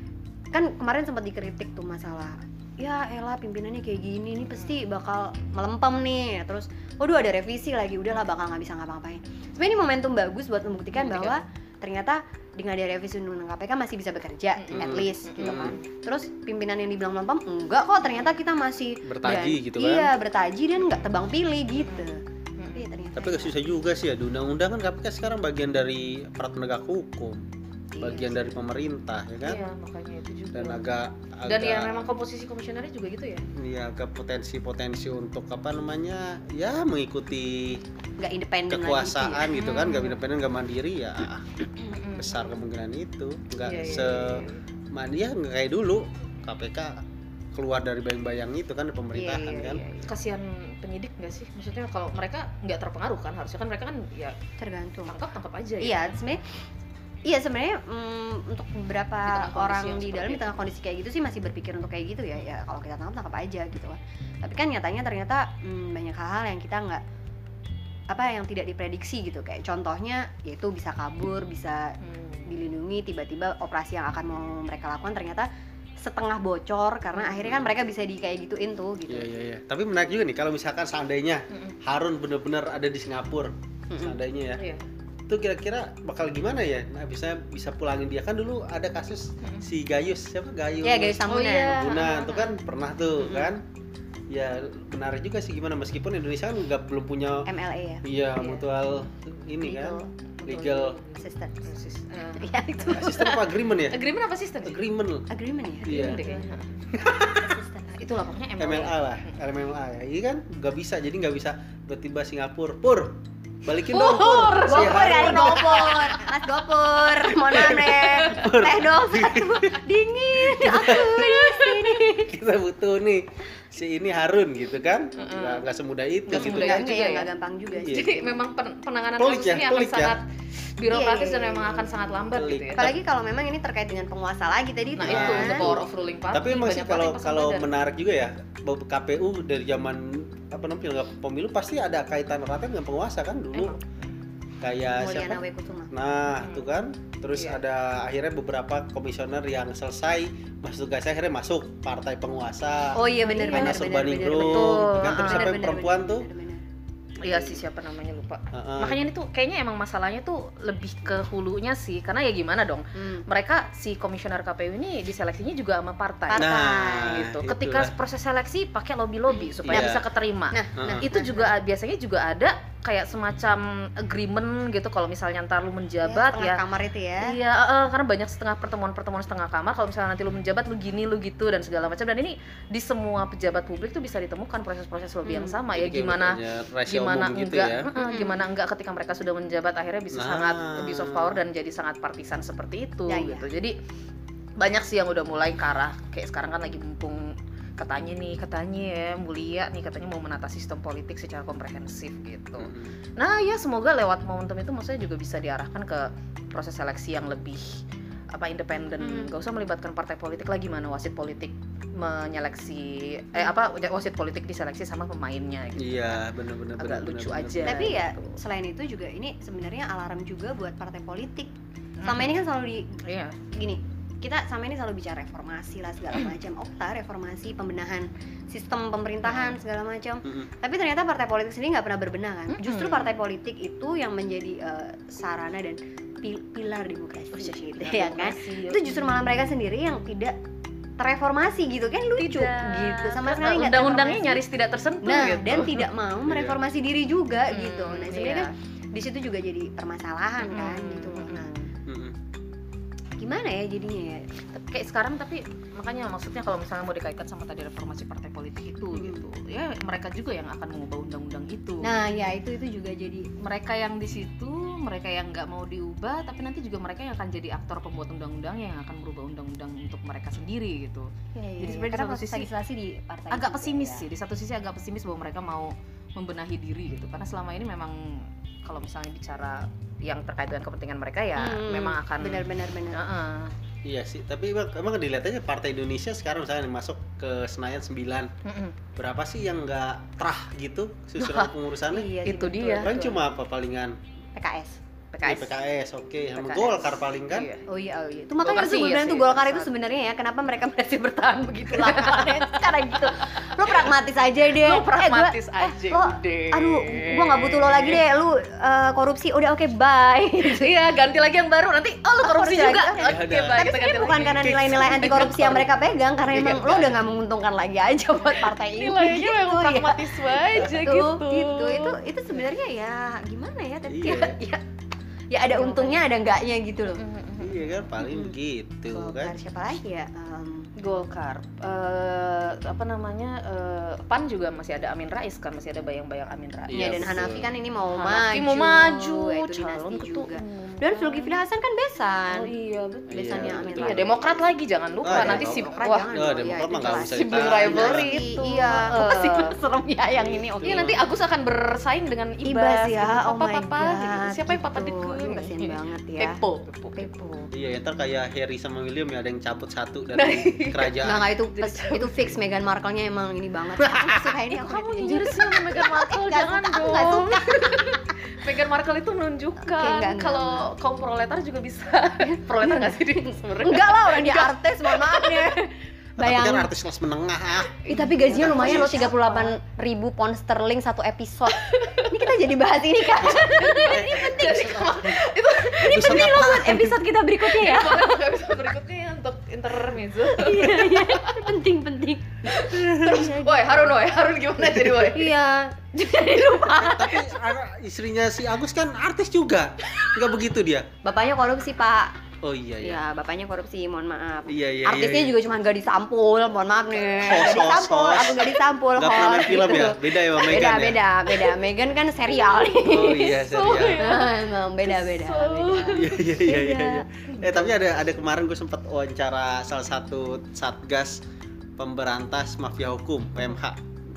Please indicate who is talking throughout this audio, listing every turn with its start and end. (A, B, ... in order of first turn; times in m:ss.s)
0:00.5-0:22.2 A
0:10.9-0:11.4 B
0:14.6-0:15.8 B
0:14.7-0:15.7 C
0:19.0-0:20.1 C
0:21.8-0:22.8 B
0:22.7-0:23.6 A
0:23.2-0:27.4 C
0:27.9-0:28.5 A
0:28.0-0:29.6 C
0:29.4-0:30.8 B
0:30.5-0:32.1 C
0:31.4-0:33.5 B
0:33.6-0:37.8 C
0:38.2-0:39.6 A
0:38.7-0:41.5 C
0:39.5-0:40.2 B
0:41.9-0:42.4 B
0:42.1-0:47.0 C
0:43.6-0:44.6 B
0:47.5-0:49.8 C
0:49.1-0:50.1 A
0:50.1-0:54.4 B
0:54.6-0:55.2 A
0:55.1-0:56.2 B
0:55.8-0:56.4 A
0:57.2-1:07.0 A
0:59.2-1:00.6 B
1:08.1-1:19.3 A
1:12.0-1:12.5 B
1:17.1-1:17.6 B
1:19.1-1:24.6 C
1:21.5-1:21.8 B
1:23.9-1:24.2 A
1:24.6-1:24.8 B
1:25.3-1:33.6 C
1:30.8-1:32.4 A
1:31.3-1:32.5 B
1:33.2-1:33.6 A
1:34.3-1:37.5 C
1:37.4-1:38.0 A
1:38.0-1:41.0 C
1:39.6-1:40.1 A
1:40.4-1:44.8 B
1:41.2-1:41.7 A
1:42.3-1:43.3 A
1:42.9-1:44.0 C
1:44.6-1:45.2 C
1:45.3-1:46.5 A
1:45.8-1:46.8 B
1:45.9-1:46.2 C
1:46.9-1:47.6 C
1:47.5-1:47.9 A
1:47.9-1:49.4 B
1:48.6-1:56.2 C
1:53.9-1:56.0 B
1:54.7-2:02.3 A
1:57.5-1:59.8 C
1:57.7-1:58.5 B
2:00.4-2:01.4 C
2:01.2-2:01.6 B
2:02.1-2:06.8 C
2:05.2-2:05.6 B
2:06.3-2:07.3 B
2:06.3-2:08.4 A
2:07.8-2:08.2 C
2:07.8-2:12.9 B
2:09.2-2:10.2 C
2:10.9-2:15.7 A
2:12.3-2:13.0 C
2:15.0-2:17.7 B
2:15.0-2:23.8 C
2:23.5-2:24.0 B
2:24.6-2:36.3 C
2:24.9-2:25.9 A
2:26.4-2:26.6 B
2:27.3-2:27.6 B
2:32.9-2:36.6 A
2:33.2-2:33.8 B
2:34.4-2:35.5 B
2:37.2-2:56.6 B
2:37.3-2:37.6 C
2:38.5-2:39.0 C
2:43.0-2:43.2 A
2:46.3-2:47.2 A
2:46.4-2:47.9 C
2:49.4-2:50.0 A
2:49.7-2:50.0 C
2:50.5-2:51.5 A
2:50.8-2:51.1 C
2:56.0-2:57.4 A
2:57.2-3:13.7 B
3:05.2-3:05.6 A
3:05.7-3:07.9 C
3:08.0-3:08.4 A
3:10.1-3:11.4 C
3:13.1-3:13.5 A
3:14.6-3:27.8 B
3:22.6-3:22.9 C
3:28.3-3:36.2 B
3:29.0-3:29.3 A
3:35.8-3:38.0 C
3:36.8-3:38.4 B
3:37.6-3:41.5 A
3:42.0-3:42.4 B
3:42.0-4:00.4 A
3:43.0-3:43.4 B
3:49.2-3:49.6 B
3:52.5-3:53.2 B
3:57.3-3:59.3 B
4:01.0-4:04.4 A
4:02.2-4:05.9 B
4:05.0-4:11.5 A
4:06.2-4:06.6 C
4:07.5-4:08.5 B
4:10.4-4:11.7 B
4:11.9-4:12.2 C
4:13.2-4:14.3 A
4:14.5-4:22.0 B
4:18.9-4:19.3 A
4:21.8-4:23.4 A
4:23.4-4:32.5 B
4:31.4-4:34.1 A
4:33.3-4:43.5 B
4:41.4-4:43.0 A
4:43.8-4:48.3 C
4:48.4-4:48.8 B
4:49.0-4:52.1 C
4:51.2-4:51.5 B
4:51.9-4:53.2 A
4:52.2-4:53.0 B
4:52.8-4:54.0 C
4:54.4-4:54.8 A
4:55.1-4:55.6 B
4:55.2-4:57.5 C
4:56.4-4:57.6 B
4:57.7-5:10.7 A
4:58.4-4:59.7 B
5:01.7-5:03.9 B
5:04.5-5:08.0 B
5:10.4-5:15.6 B
5:12.2-5:24.6 A
5:13.0-5:13.7 C
5:14.4-5:17.0 C
5:18.5-5:22.0 B
5:23.9-5:24.4 C
5:25.3-5:27.0 A
5:25.4-5:26.0 B
5:27.0-5:27.7 B
5:27.4-5:29.4 C
5:28.0-5:28.3 A
5:28.9-5:30.7 A
5:30.8-5:37.4 B
5:36.7-5:37.5 C
5:36.7-5:42.5 A
5:37.9-5:41.3 B
5:42.3-5:46.1 B
5:43.1-5:44.0 C
5:43.1-5:44.4 A
5:45.0-5:48.1 C
5:45.1-5:50.9 A
5:46.9-5:49.6 B
5:50.2-5:51.0 C
5:50.6-5:57.1 B
5:52.4-5:56.4 A
5:57.0-5:57.5 A
5:57.5-6:01.3 C
6:00.1-6:01.0 B
6:01.0-6:08.0 A
6:01.5-6:02.1 B
6:03.8-6:04.3 C
6:04.5-6:15.6 B
6:09.6-6:10.7 A
6:12.3-6:16.7 A
6:16.2-6:19.1 C
6:17.9-6:28.1 A
6:17.9-6:19.6 B
6:21.5-6:22.3 B
6:23.2-6:26.6 B
6:23.8-6:25.1 C
6:25.8-6:27.0 C
6:27.4-6:31.5 B
6:30.3-6:33.9 A
6:32.4-6:35.3 B
6:34.6-6:37.2 A
6:36.1-6:36.8 B
6:36.8-6:40.9 C
6:41.0-6:42.1 A
6:42.4-6:43.0 C
6:42.8-6:57.6 A
6:44.5-6:45.4 C
6:47.2-6:51.0 C
6:52.8-6:54.0 C
6:53.2-6:56.1 B
6:55.9-7:01.2 C
7:01.8-7:03.8 C